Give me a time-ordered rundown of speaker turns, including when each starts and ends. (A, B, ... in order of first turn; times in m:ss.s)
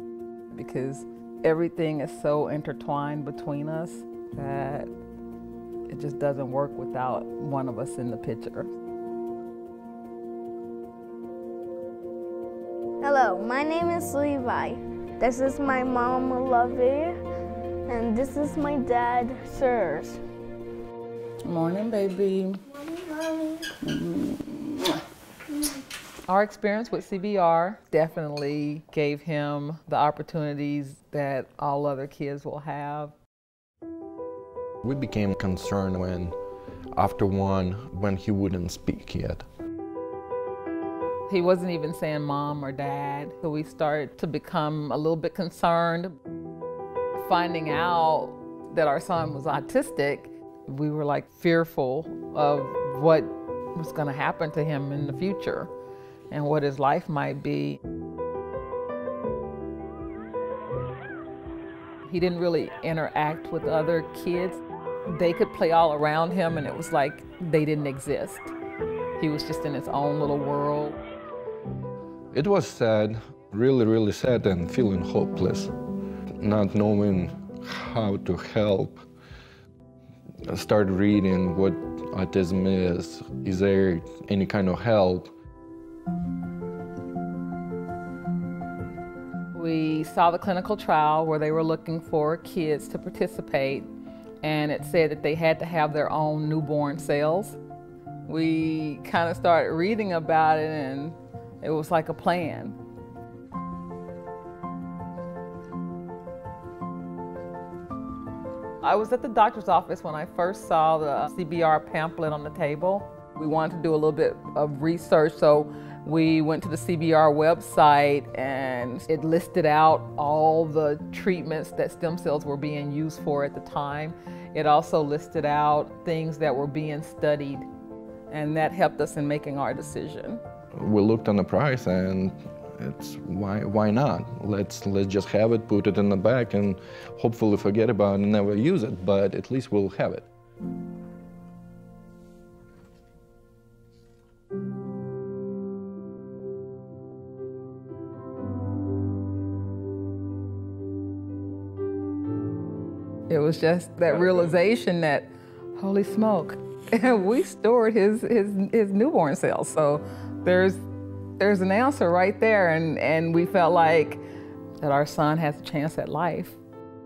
0:00.5-0:04.9 A
0:05.9-0:08.7 A
0:13.0-0:17.2 B
0:17.9-0:20.2 B
0:21.4-0:25.0 A
0:26.3-0:33.2 A
0:34.8-0:36.4 C
0:37.0-0:39.5 C
0:41.3-0:46.2 A
0:47.2-0:55.7 A
0:56.3-0:57.8 A
1:02.0-1:08.6 A
1:09.2-1:11.0 A
1:12.3-1:15.7 C
1:16.4-1:19.0 C
1:20.5-1:25.3 C
1:29.5-1:33.9 A
1:34.4-1:37.6 A
1:38.3-1:42.8 A
1:48.8-2:07.7 A
2:08.3-2:10.4 A
2:10.8-2:20.3 C
2:33.3-2:40.8 A
2:41.4-2:44.2 A
2:44.8-2:46.6 A